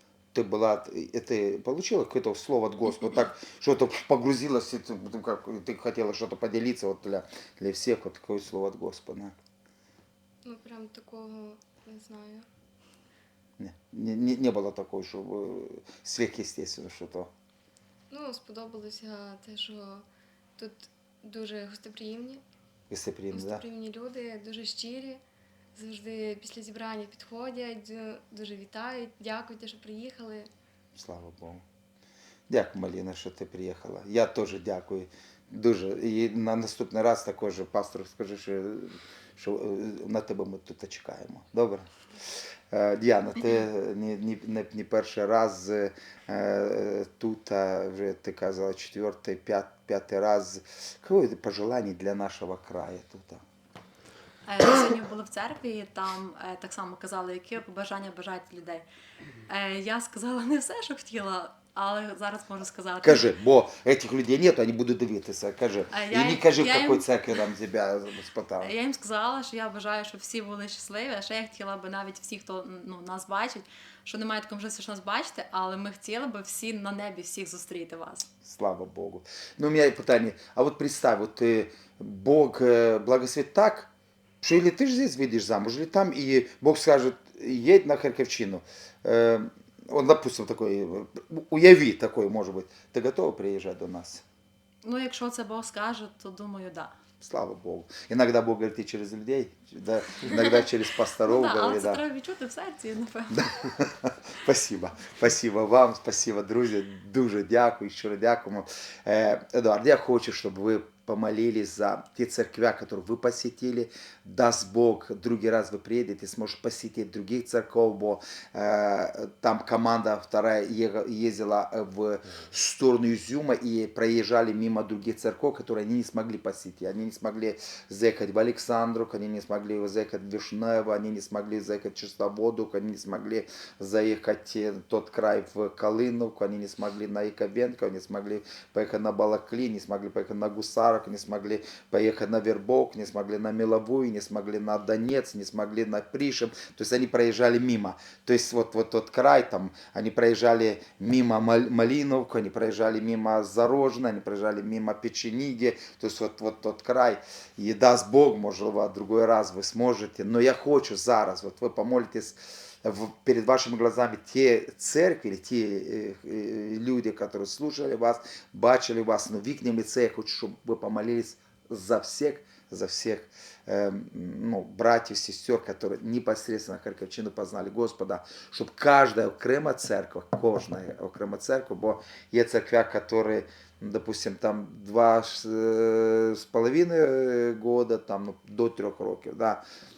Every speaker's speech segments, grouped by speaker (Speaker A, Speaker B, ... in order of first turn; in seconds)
Speaker A: 0.3-9.3, 13.6-17.3, 22.9-23.6, 30.9-31.6, 32.5-41.9, 42.7-53.4, 63.0-68.7, 78.4-83.9, 84.4-94.2, 97.2-102.0, 103.3-189.6
Speaker B: 10.4-12.4, 18.1-20.0, 20.6-22.4, 23.3-25.2, 25.7-30.5
Speaker C: 54.5-58.8, 59.5-63.3, 65.9-67.1, 68.6-78.3, 94.8-96.9, 101.2-103.4